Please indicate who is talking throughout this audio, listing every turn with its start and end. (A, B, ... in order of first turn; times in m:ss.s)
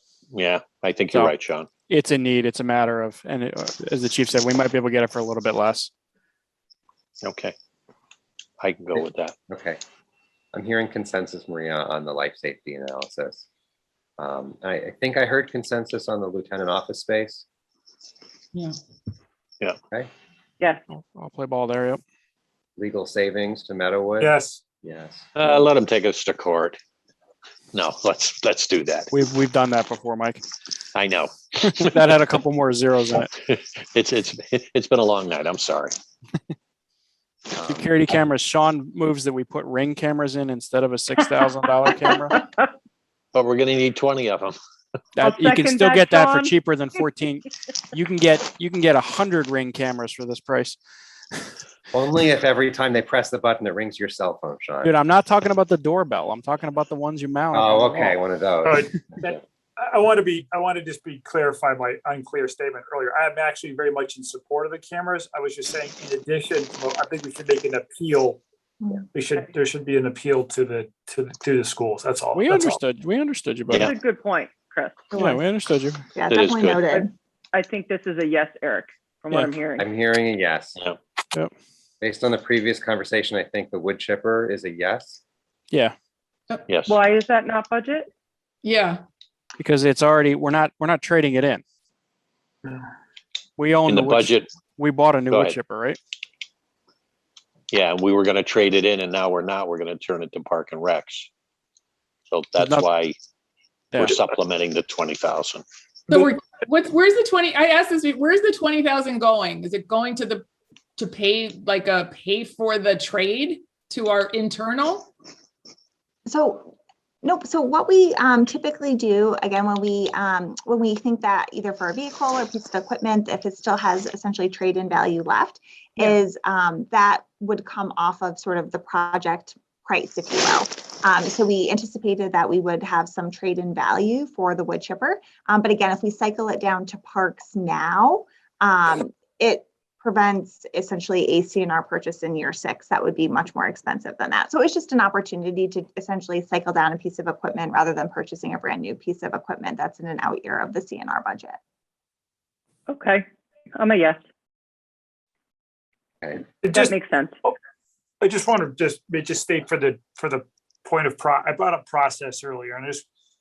0:00.3-0:01.7 A
0:01.9-0:05.9 B
0:07.2-0:07.6 A
0:08.6-0:09.3 A
0:09.5-0:09.8 C
0:10.5-0:13.5 C
0:14.2-0:17.4 C
0:20.9-0:22.0 B
0:22.8-0:25.3 C
0:24.2-0:24.6 D
0:25.4-0:26.8 A
0:27.7-0:29.1 A
0:29.1-0:30.4 B
0:31.0-0:32.0 A
0:31.6-0:33.3 B
0:33.4-0:36.0 A
0:37.6-0:37.9 C
0:37.7-0:42.4 B
0:42.3-0:42.6 E
0:43.3-0:44.6 A
0:45.2-0:50.8 B
0:45.2-0:46.5 E
0:51.9-0:55.0 C
0:54.8-0:58.2 B
0:57.5-0:59.4 C
0:58.6-1:08.4 D
1:09.1-1:12.8 D
1:12.3-1:13.9 B
1:13.7-1:15.0 E
1:15.1-1:15.4 F
1:15.1-1:16.0 B
1:16.2-1:17.1 F
1:16.3-1:17.0 A
1:17.5-1:19.9 E
1:19.8-1:20.8 C
1:22.0-1:25.2 C
1:26.7-1:27.0 A
1:26.9-1:28.1 E
1:28.6-1:29.0 G
1:29.6-1:31.6 B
1:33.6-1:36.0 B
1:33.9-1:34.5 A
1:35.3-1:35.6 A
1:37.7-1:41.3 A
1:42.3-1:43.2 A
1:42.6-1:42.8 B
1:43.9-1:44.2 B
1:44.0-1:45.6 A
1:46.1-1:55.1 G
1:56.3-2:31.6 F
2:32.9-2:33.2 E
2:33.8-2:34.2 E
2:36.6-2:37.5 D
2:36.7-2:37.4 E
2:38.2-2:43.0 D